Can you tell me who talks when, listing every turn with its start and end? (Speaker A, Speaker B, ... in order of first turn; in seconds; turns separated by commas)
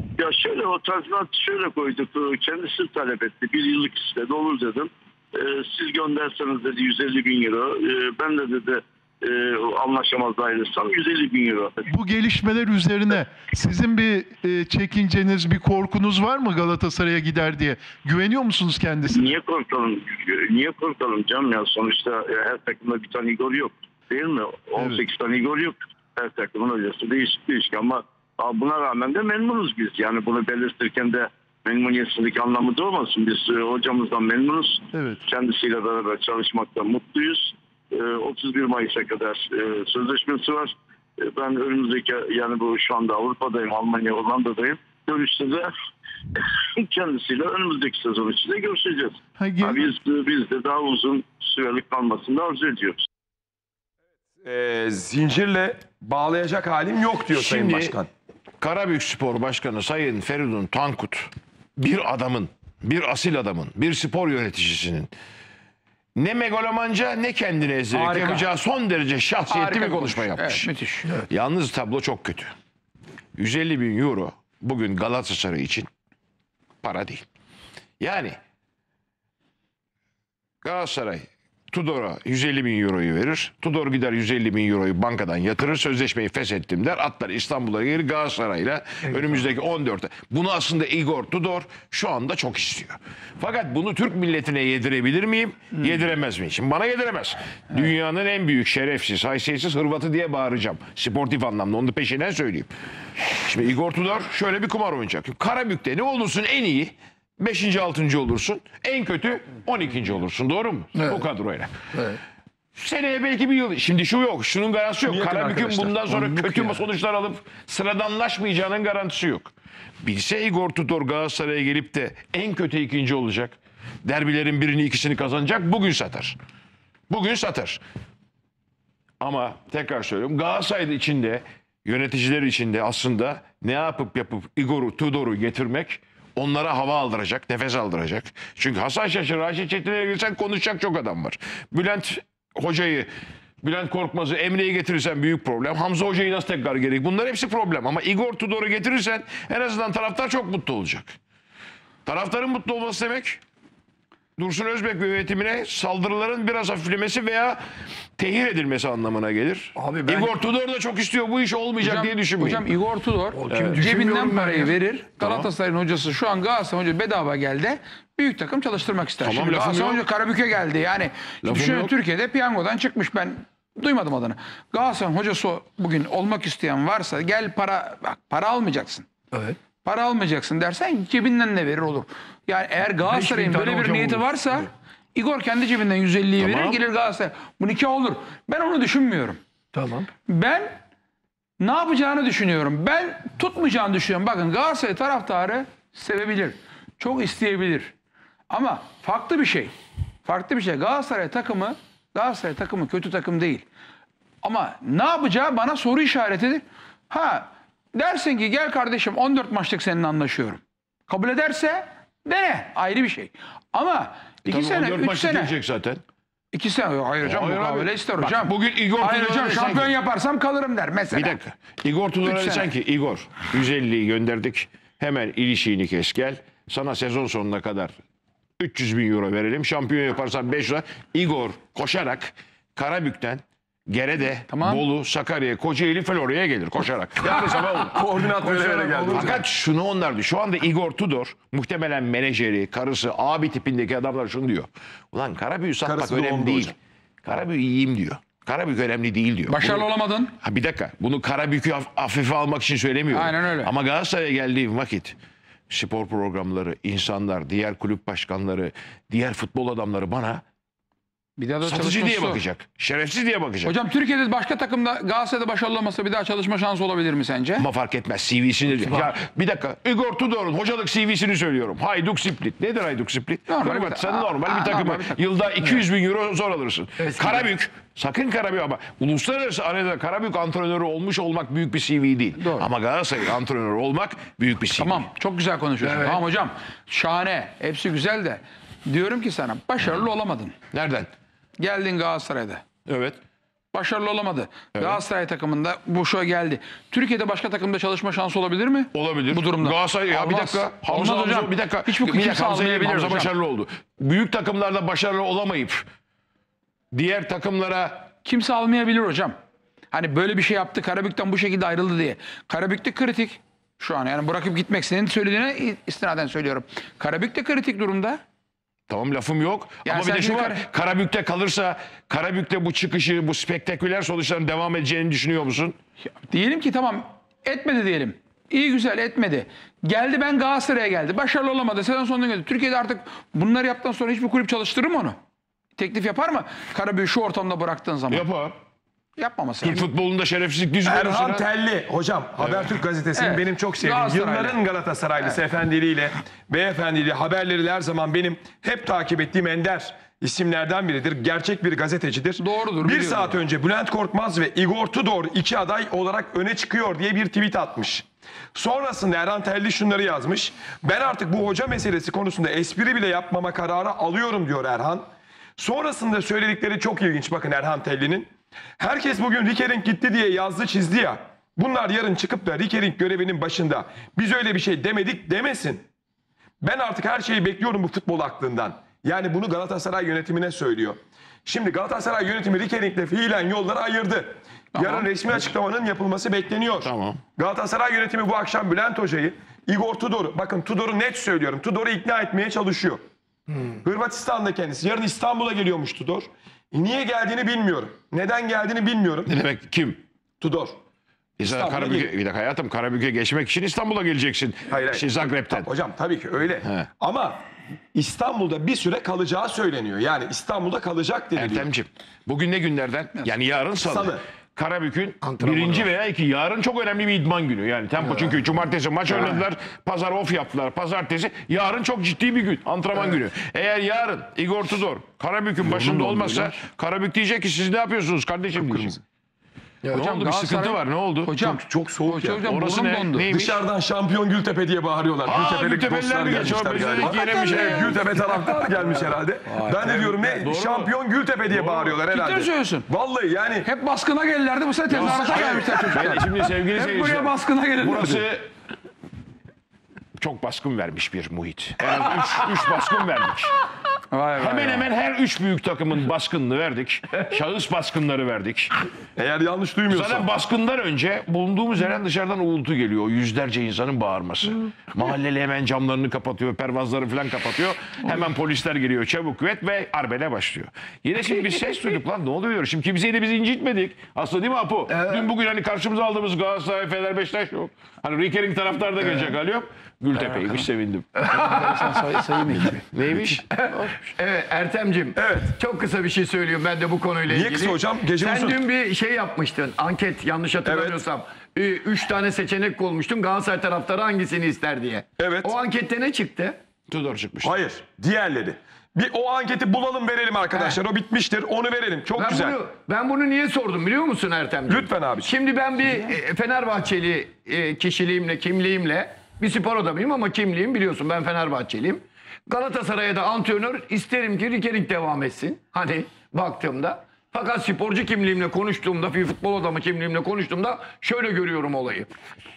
Speaker A: 0.2-11.7, Speaker B: 11.9-19.3, Speaker A: 19.1-45.7, Speaker B: 24.8-25.0, Speaker B: 34.9-35.2, Speaker A: 46.4-53.0, Speaker B: 49.4-49.8, Speaker C: 54.4-58.1, Speaker D: 57.3-58.0, Speaker D: 58.6-65.1, Speaker D: 66.2-72.5, Speaker E: 67.9-68.5, Speaker E: 69.5-71.1, Speaker D: 73.3-75.9, Speaker D: 76.8-77.2, Speaker D: 78.0-78.4, Speaker D: 80.6-111.7, Speaker D: 112.7-126.3, Speaker C: 115.0-116.5, Speaker D: 127.1-127.8, Speaker D: 129.2-143.1, Speaker D: 143.6-151.2, Speaker D: 152.1-153.4, Speaker D: 154.4-157.6, Speaker D: 158.2-162.6, Speaker F: 159.7-160.3, Speaker E: 161.8-179.1, Speaker F: 163.3-164.7, Speaker D: 163.5-163.8, Speaker D: 165.2-165.5, Speaker D: 169.2-170.0, Speaker D: 171.4-171.9, Speaker E: 179.8-189.4, Speaker F: 183.1-184.3, Speaker D: 186.4-186.8, Speaker F: 189.7-190.1, Speaker E: 190.3-190.8, Speaker E: 191.6-197.9, Speaker E: 198.5-203.6, Speaker E: 204.4-215.6, Speaker D: 214.4-216.0, Speaker E: 216.5-221.4, Speaker D: 217.2-219.9, Speaker D: 221.1-227.9, Speaker E: 222.2-222.7, Speaker D: 228.6-249.9, Speaker E: 234.5-234.8, Speaker C: 238.0-239.4, Speaker C: 245.8-246.7, Speaker E: 249.5-250.3, Speaker D: 250.4-255.2, Speaker E: 253.1-253.7, Speaker D: 255.7-260.4, Speaker E: 261.4-262.4, Speaker D: 261.6-263.7, Speaker E: 263.6-267.7, Speaker D: 267.6-285.1, Speaker F: 268.8-269.1, Speaker E: 273.5-275.8, Speaker F: 277.0-277.5, Speaker E: 282.4-282.7, Speaker E: 284.8-290.5, Speaker F: 285.8-286.2, Speaker D: 290.7-291.1, Speaker E: 291.6-292.6, Speaker D: 292.9-293.2, Speaker E: 293.7-303.3, Speaker D: 294.7-295.0, Speaker D: 298.9-305.8, Speaker D: 306.9-308.1, Speaker E: 308.2-309.3, Speaker E: 309.9-318.2, Speaker D: 318.9-325.8, Speaker E: 319.8-320.6, Speaker E: 326.3-335.2, Speaker E: 335.8-338.2, Speaker D: 338.1-338.6, Speaker E: 339.1-339.9, Speaker D: 339.6-341.4, Speaker C: 340.8-375.9, Speaker D: 342.4-342.7, Speaker E: 343.1-344.6, Speaker E: 352.4-353.4, Speaker C: 376.6-393.0, Speaker E: 384.7-385.1, Speaker D: 386.8-387.2, Speaker C: 393.8-399.3, Speaker D: 399.3-400.0, Speaker C: 400.4-400.8, Speaker D: 401.4-405.7, Speaker C: 401.4-402.1, Speaker C: 404.7-407.4, Speaker C: 407.9-411.7, Speaker D: 411.3-429.0, Speaker C: 413.8-414.2, Speaker F: 415.2-415.9, Speaker C: 428.5-428.9, Speaker D: 429.9-431.3, Speaker E: 429.9-433.2, Speaker C: 431.4-432.4, Speaker D: 432.3-433.6, Speaker C: 433.3-443.7, Speaker D: 435.2-438.0, Speaker E: 436.6-438.7, Speaker E: 439.5-440.1, Speaker D: 439.8-440.9, Speaker D: 441.5-441.9, Speaker E: 442.1-442.9, Speaker E: 443.6-448.2, Speaker D: 444.9-448.5, Speaker D: 450.2-453.6, Speaker E: 454.1-454.9, Speaker D: 454.4-458.8, Speaker C: 459.1-460.3, Speaker D: 459.9-481.1, Speaker F: 474.9-475.3, Speaker E: 481.3-482.8, Speaker F: 481.4-481.9, Speaker D: 482.5-484.1, Speaker F: 484.1-496.6, Speaker C: 485.1-485.6, Speaker C: 487.3-488.6, Speaker C: 490.6-491.0, Speaker C: 495.2-495.5, Speaker D: 496.9-497.6, Speaker C: 497.4-502.6, Speaker F: 500.5-500.8, Speaker F: 502.1-522.1, Speaker C: 504.7-505.3